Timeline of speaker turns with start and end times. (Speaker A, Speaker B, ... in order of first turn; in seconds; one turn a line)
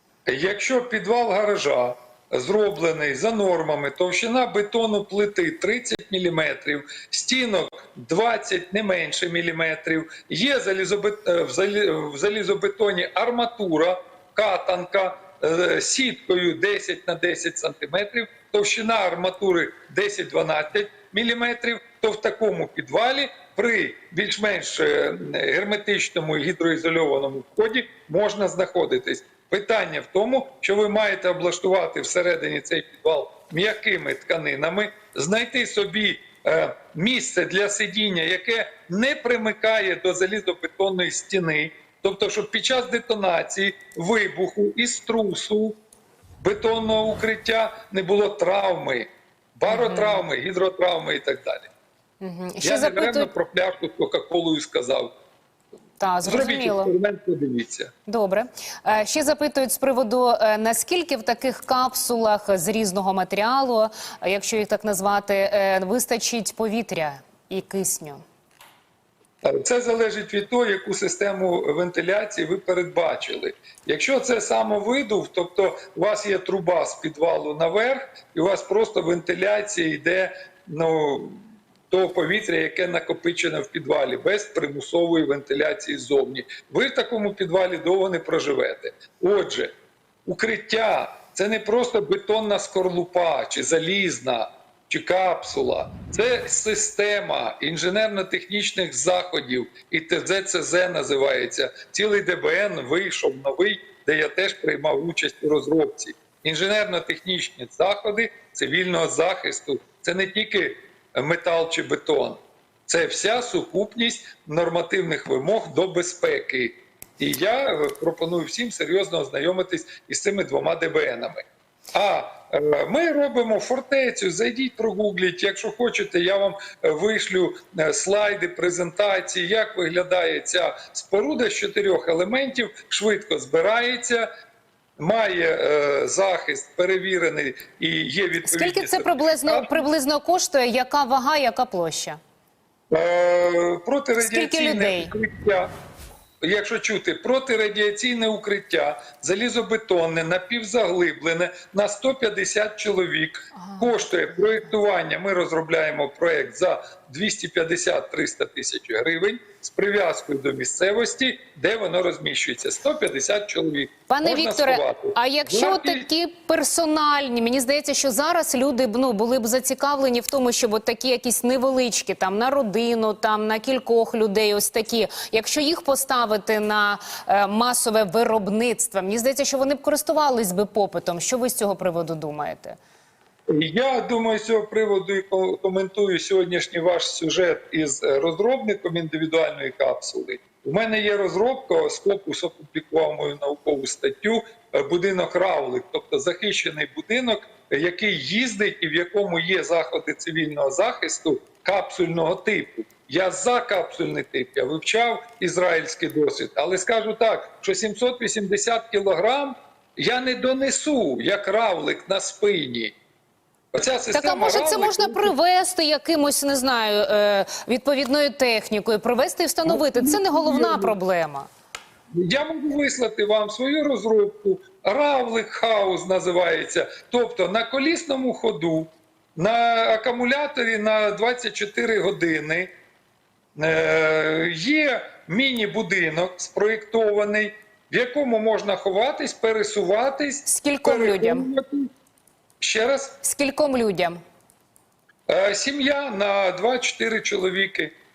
Speaker A: 0.3-45.8
Speaker A: 46.4-51.7
Speaker B: 49.7-50.2
Speaker B: 52.2-53.3
Speaker A: 52.6-55.1
Speaker B: 56.0-56.9
Speaker A: 56.2-57.9
Speaker B: 58.1-68.2
Speaker A: 69.4-89.7
Speaker A: 90.2-134.3
Speaker A: 135.0-139.9
Speaker B: 138.4-142.2
Speaker A: 142.9-145.7
Speaker B: 144.2-145.1
Speaker A: 146.4-166.1
Speaker B: 153.6-154.0
Speaker B: 164.1-182.8
Speaker A: 183.5-212.9
Speaker A: 213.7-215.3
Speaker B: 214.1-221.5
Speaker A: 219.7-221.0
Speaker A: 222.1-232.7
Speaker A: 233.6-241.9
Speaker B: 240.5-241.5
Speaker A: 242.6-243.2
Speaker B: 243.2-244.2
Speaker A: 245.3-247.9